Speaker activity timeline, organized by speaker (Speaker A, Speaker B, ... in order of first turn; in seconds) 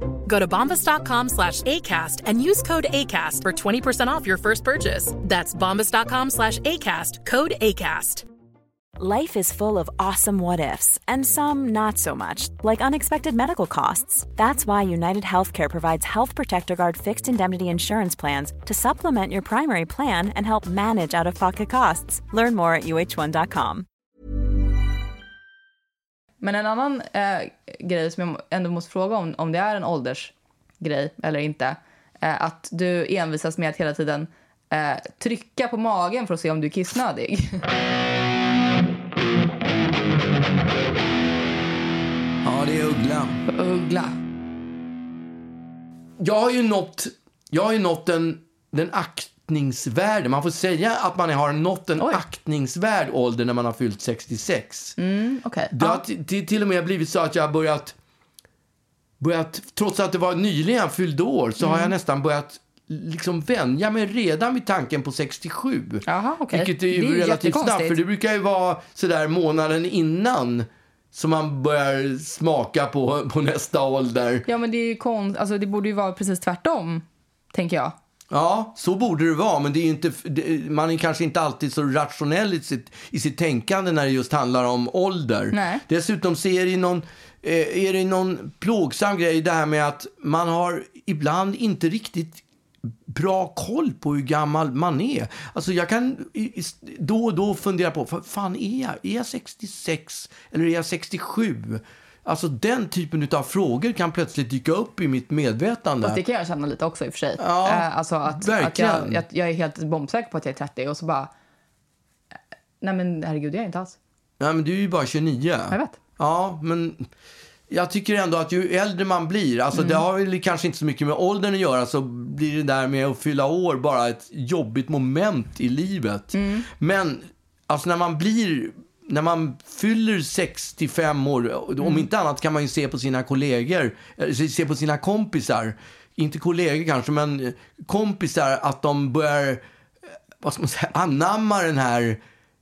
Speaker A: 0.2-8.2
Speaker B: 9.0-23.9
Speaker C: 26.4-37.6, 43.5-44.1, 55.0-56.0, 61.6-61.9, 66.0-68.0, 74.5-77.9, 85.5-85.8, 106.0-111.3, 112.8-114.0, 115.7-116.0, 119.7-120.0, 126.3-126.7
Speaker D: 42.4-43.4, 46.2-55.0, 55.7-58.0, 59.2-74.5, 78.3-92.4, 93.1-106.2, 107.4-109.2, 114.4-117.0, 117.7-139.6, 140.4-142.2